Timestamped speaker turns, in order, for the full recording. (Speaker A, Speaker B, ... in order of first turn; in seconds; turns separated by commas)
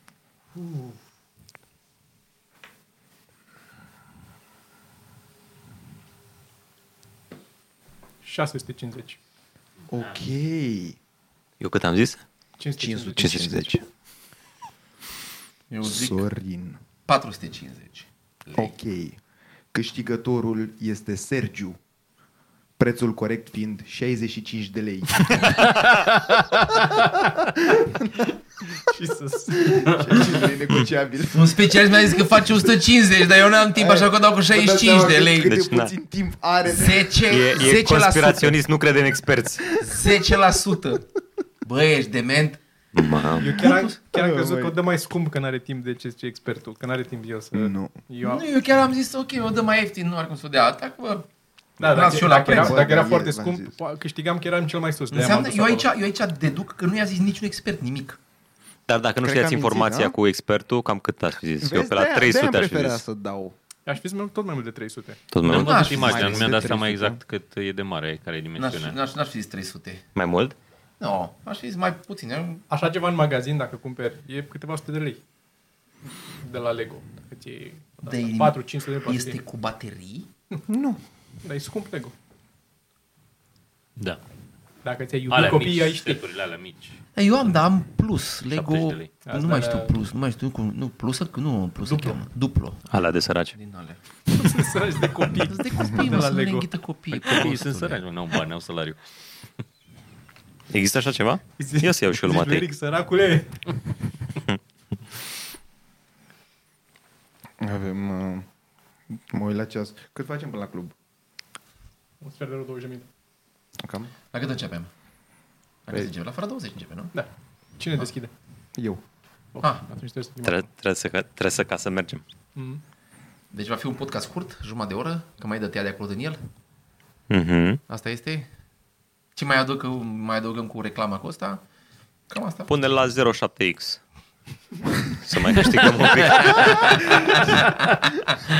Speaker A: 0.6-0.9, Speaker A: 8.2-9.2, Speaker B: 9.9-11.0, Speaker C: 11.6-12.2, Speaker A: 12.6-13.5, Speaker B: 12.8-13.8, Speaker C: 13.1-13.7, Speaker D: 15.7-16.2, Speaker B: 15.8-16.8, Speaker D: 17.1-18.7, Speaker B: 18.6-19.2, Speaker B: 19.7-21.8, Speaker B: 22.8-25.8, Speaker B: 26.9-28.3, Speaker A: 28.9-29.8, Speaker B: 29.6-31.5, Speaker D: 31.2-35.6, Speaker B: 33.7-37.2, Speaker C: 35.5-35.9, Speaker D: 36.6-38.5, Speaker C: 37.3-39.6, Speaker D: 39.8-41.0, Speaker D: 41.6-42.6, Speaker C: 42.9-43.5, Speaker A: 43.4-48.4, Speaker B: 43.4-44.8, Speaker D: 43.5-44.0, Speaker B: 47.5-48.0, Speaker D: 48.2-51.3, Speaker A: 51.8-55.9, Speaker D: 51.8-52.8, Speaker B: 51.8-53.7, Speaker D: 55.1-58.2, Speaker C: 58.9-63.0, Speaker B: 59.2-60.1, Speaker B: 61.6-63.5, Speaker A: 63.9-65.2, Speaker C: 65.3-65.9, Speaker E: 65.4-69.0, Speaker D: 65.4-66.6, Speaker B: 65.6-67.2, Speaker D: 68.6-70.0, Speaker C: 70.1-70.5, Speaker D: 71.0-72.6, Speaker A: 72.7-75.2, Speaker A: 76.4-79.4, Speaker D: 78.0-80.3, Speaker B: 80.7-81.0, Speaker A: 81.4-82.1, Speaker A: 84.8-86.2, Speaker E: 85.3-87.0, Speaker D: 87.1-92.8, Speaker E: 88.5-89.1, Speaker A: 89.2-90.0, Speaker A: 91.8-92.2, Speaker C: 92.9-93.5, Speaker D: 93.5-94.0, Speaker A: 94.3-96.7, Speaker D: 95.3-98.0, Speaker E: 97.1-99.0, Speaker C: 100.7-102.7, Speaker A: 101.6-103.6, Speaker B: 107.6-108.5, Speaker B: 109.3-110.9, Speaker A: 112.2-113.1, Speaker B: 113.8-114.1, Speaker D: 114.3-114.9, Speaker D: 115.8-117.1, Speaker A: 117.1-118.3, Speaker B: 118.8-119.0, Speaker A: 119.5-120.7, Speaker C: 120.4-122.2, Speaker A: 122.5-122.8, Speaker D: 123.5-126.4, Speaker C: 127.3-127.8, Speaker D: 127.9-128.5, Speaker D: 129.3-131.6, Speaker D: 132.3-132.9, Speaker C: 132.7-134.0, Speaker C: 135.2-137.3, Speaker D: 135.8-137.7